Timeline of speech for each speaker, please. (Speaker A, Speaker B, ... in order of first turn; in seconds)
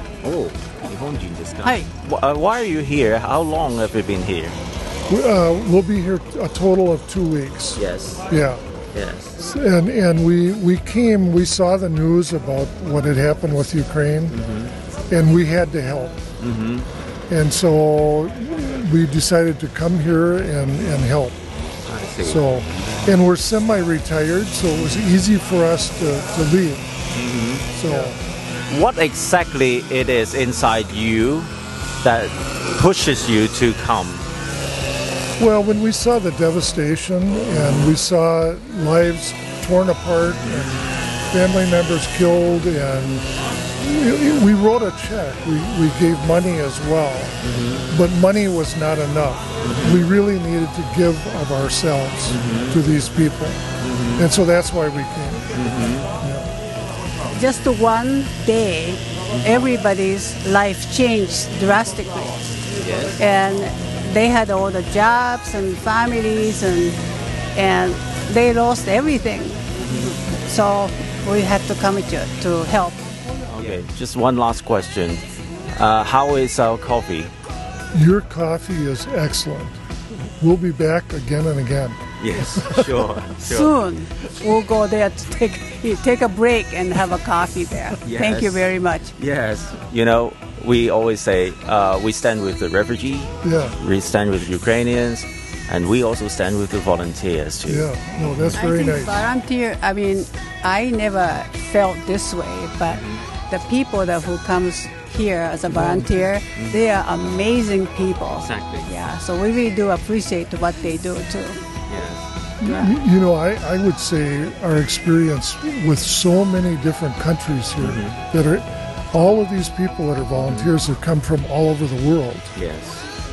Speaker A: 0.2-4.6, 7.8-8.2, 8.9-9.4, 14.3-14.7, 16.4-16.9, 21.9-23.1, 27.1-28.1, 28.7-31.5, 32.0-34.3, 37.5-38.0, 47.4-47.9, 49.6-50.1, 52.3-52.8, 53.8-54.3, 55.5-56.1, 62.8-63.2, 69.8-70.1, 73.5-75.2, 75.8-77.3, 82.2-83.7, 88.0-98.6, 102.8-103.2, 108.3-108.9, 111.9-112.3, 117.8-118.2, 120.3-120.7, 122.5-123.1
Speaker B: 1.6-1.9, 57.3-62.6, 63.2-67.0, 67.5-73.1, 83.4-89.1, 98.5-111.7, 112.6-112.9
Speaker C: 5.1-8.6, 9.4-14.4, 15.1-16.2, 17.3-21.4, 22.2-26.9, 27.7-28.2, 35.4-43.2, 43.8-53.6, 54.1-55.7, 56.2-56.5, 77.9-79.8, 80.4-83.0, 93.4-93.8, 97.7-99.3, 105.8-106.1, 112.6-122.5